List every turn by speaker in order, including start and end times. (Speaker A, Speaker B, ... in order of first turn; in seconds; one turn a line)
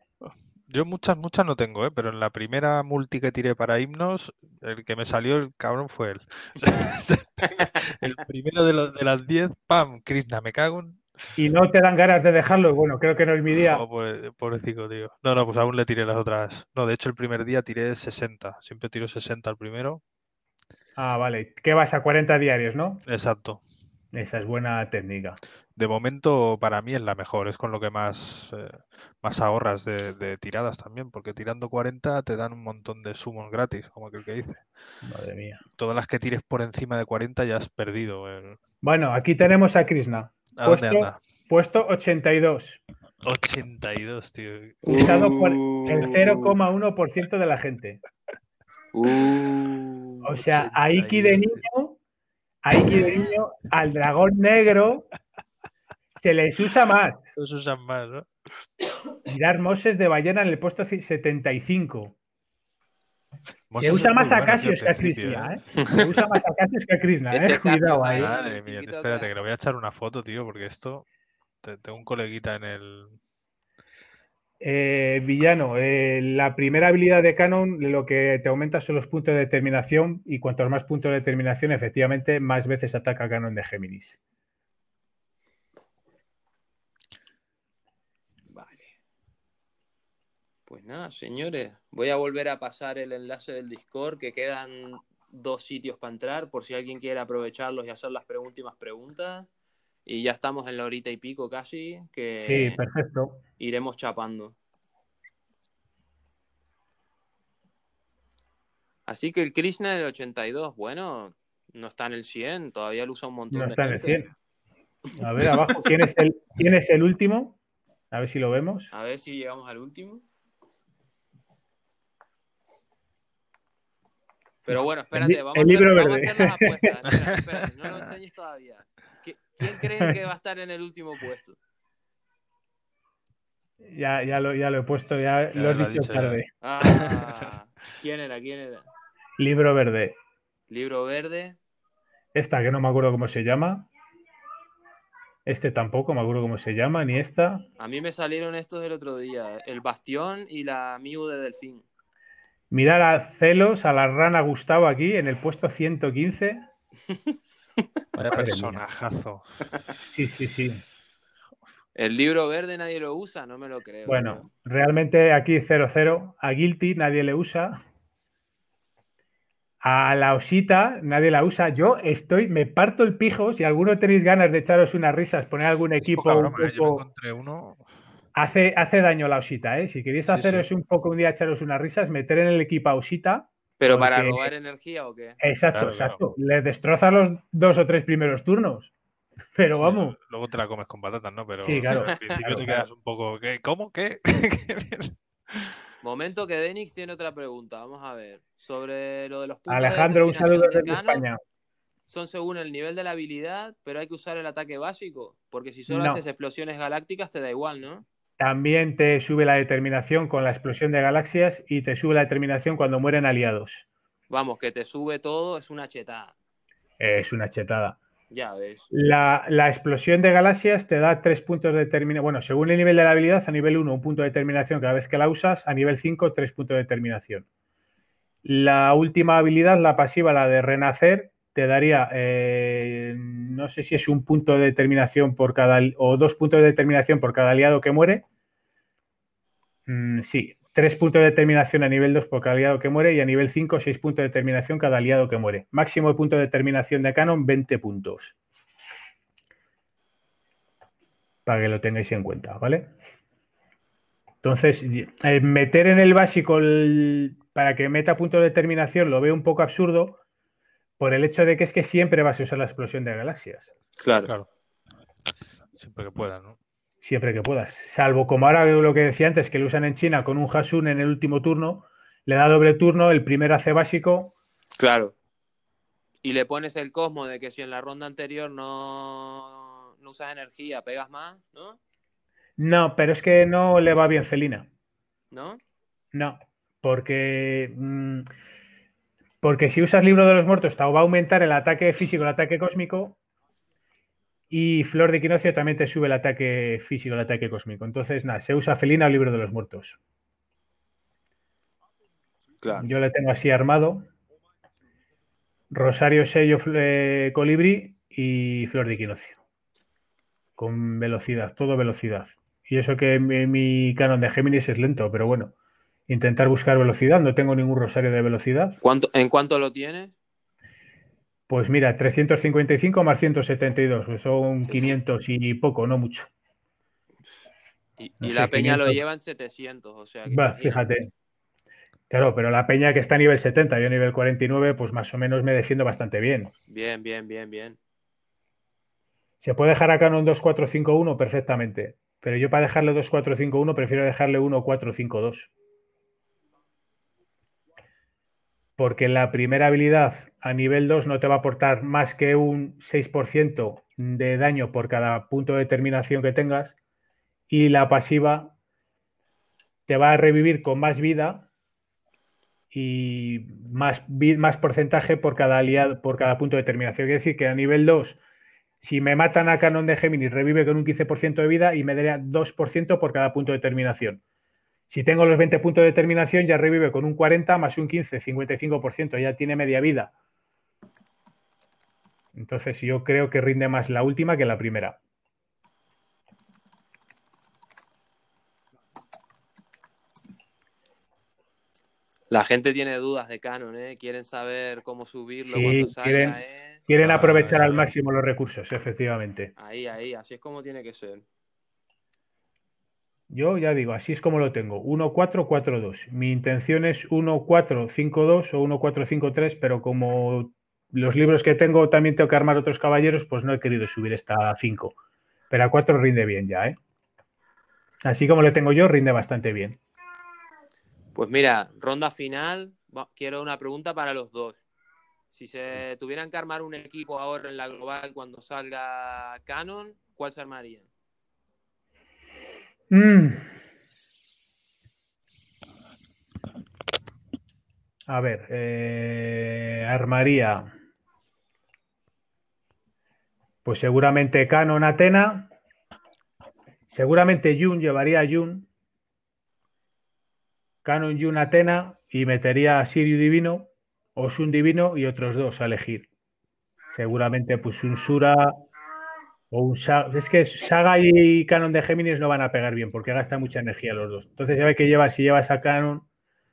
Speaker A: 0.2-11.0
Speaker B: 11.3-13.8
Speaker A: 13.7-20.0
Speaker B: 20.9-23.0
Speaker A: 23.0-23.6
Speaker B: 24.1-25.4
Speaker A: 25.8-34.6
Speaker B: 35.0-35.6
Speaker A: 35.8-38.6
Speaker B: 38.8-42.8
Speaker A: 40.5-41.2
Speaker A: 43.2-45.1
Speaker C: 44.8-46.5
Speaker B: 44.9-48.0
Speaker C: 48.9-50.2
Speaker B: 50.2-52.0
Speaker A: 50.4-51.6
Speaker B: 52.6-55.1
Speaker B: 56.2-57.3
Speaker A: 57.3-58.3
Speaker B: 59.3-62.1
Speaker A: 63.7-65.6
Speaker B: 63.7-68.3
Speaker C: 65.8-66.1
Speaker C: 67.3-69.3
Speaker A: 68.1-71.0
Speaker A: 71.6-73.2
Speaker B: 74.6-84.2
Speaker C: 88.5-88.9
Speaker C: 90.7-99.5
Speaker C: 100.0-102.8
Speaker B: 102.4-103.4
Speaker C: 103.6-104.5
Speaker C: 109.1-114.2
Speaker B: 113.5-114.3
Speaker B: 115.1-117.6
Speaker C: 115.5-115.8
Speaker B: 118.1-118.9
Speaker C: 118.9-120.2
Speaker B: 124.7-126.8
Speaker C: 124.7-131.6
Speaker B: 133.8-136.5
Speaker A: 135.5-137.2
Speaker C: 136.6-138.9
Speaker B: 139.4-140.1
Speaker C: 140.7-141.6
Speaker B: 142.3-143.9
Speaker B: 145.4-147.7
Speaker C: 147.8-151.8
Speaker B: 152.7-156.7
Speaker C: 157.1-157.8
Speaker A: 158.1-159.6
Speaker B: 158.2-158.8
Speaker B: 160.1-160.8
Speaker C: 161.9-164.5
Speaker B: 164.1-167.8
Speaker B: 169.8-177.0
Speaker A: 176.0-177.8
Speaker B: 178.3-184.5
Speaker A: 180.2-180.7
Speaker C: 183.8-185.4
Speaker B: 185.4-188.9
Speaker A: 185.7-186.2
Speaker B: 189.5-190.2
Speaker A: 189.8-195.8
Speaker B: 191.6-192.9
Speaker C: 191.9-192.4
Speaker C: 196.0-201.2
Speaker B: 199.7-201.4
Speaker C: 202.1-208.0
Speaker B: 205.9-206.2
Speaker B: 208.4-213.8
Speaker C: 214.3-216.3
Speaker B: 217.0-218.0
Speaker C: 218.3-218.9
Speaker B: 218.9-227.4
Speaker B: 228.4-238.2
Speaker B: 239.9-248.3
Speaker B: 251.4-252.9
Speaker B: 254.4-260.2
Speaker B: 261.0-263.7
Speaker C: 264.0-264.3
Speaker A: 265.8-266.6
Speaker B: 267.0-274.3
Speaker C: 274.8-275.1
Speaker C: 276.2-281.8
Speaker B: 282.6-284.7
Speaker C: 285.3-285.6
Speaker B: 286.1-288.3
Speaker B: 289.4-293.2
Speaker B: 294.5-300.0
Speaker B: 302.7-304.1
Speaker B: 305.7-309.4
Speaker B: 310.6-315.5
Speaker B: 316.1-318.8
Speaker C: 318.8-320.1
Speaker B: 321.5-326.3
Speaker C: 324.6-325.0
Speaker C: 328.0-330.8
Speaker B: 328.2-329.0
Speaker B: 330.3-331.1
Speaker B: 332.1-336.5
Speaker C: 336.7-337.8
Speaker B: 339.4-345.5
Speaker B: 348.8-356.8
Speaker B: 357.5-358.5
Speaker B: 359.9-361.5
Speaker B: 362.7-368.2
Speaker B: 368.8-374.2
Speaker B: 374.9-380.1
Speaker B: 382.3-385.0
Speaker C: 392.3-396.8
Speaker B: 395.4-399.5
Speaker A: 397.0-397.9
Speaker C: 399.6-401.2
Speaker B: 403.3-414.9
Speaker B: 415.5-416.8
Speaker B: 418.0-419.8
Speaker C: 421.1-424.6
Speaker C: 425.3-430.9
Speaker B: 432.9-433.5
Speaker B: 438.1-440.7
Speaker B: 443.6-445.5
Speaker B: 446.9-448.7
Speaker B: 450.8-456.1
Speaker B: 456.9-458.5
Speaker B: 459.5-466.1